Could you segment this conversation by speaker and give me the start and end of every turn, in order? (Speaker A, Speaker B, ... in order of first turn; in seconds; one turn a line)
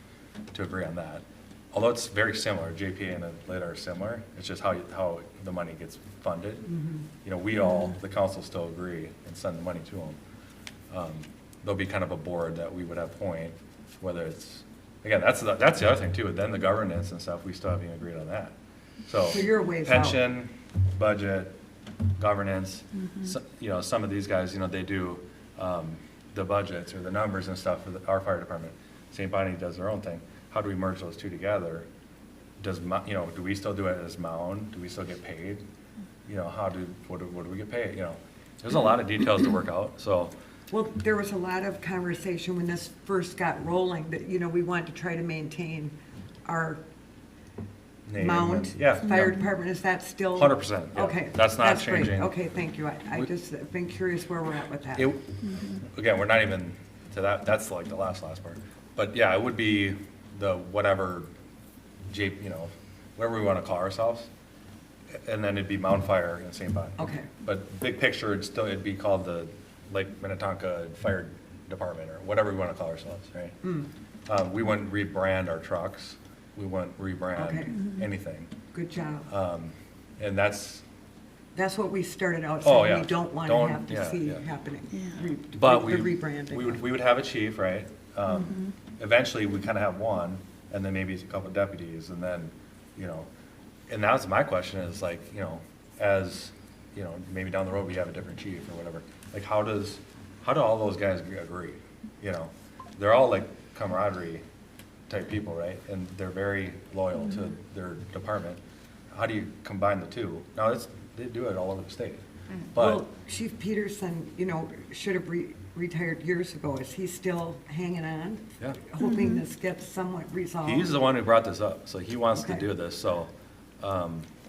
Speaker A: 0.5-6.7
Speaker B: 6.7-7.0
Speaker A: 7.2-10.2
Speaker A: 10.9-18.5
Speaker A: 19.1-21.5
Speaker B: 19.3-20.2
Speaker A: 22.2-31.9
Speaker A: 32.6-35.6
Speaker A: 36.3-40.3
Speaker B: 40.7-45.9
Speaker B: 46.5-46.8
Speaker A: 48.1-49.4
Speaker B: 48.2-55.1
Speaker A: 50.4-52.3
Speaker A: 55.0-61.3
Speaker A: 62.1-64.3
Speaker A: 65.2-73.6
Speaker B: 67.0-67.3
Speaker B: 73.6-73.9
Speaker A: 74.3-78.5
Speaker B: 77.3-77.8
Speaker B: 78.7-79.3
Speaker A: 79.3-80.8
Speaker B: 81.5-86.9
Speaker A: 82.6-84.4
Speaker A: 85.6-93.3
Speaker A: 93.9-104.4
Speaker A: 105.1-108.6
Speaker A: 109.1-113.1
Speaker B: 112.8-121.0
Speaker A: 120.6-124.3
Speaker B: 122.3-122.7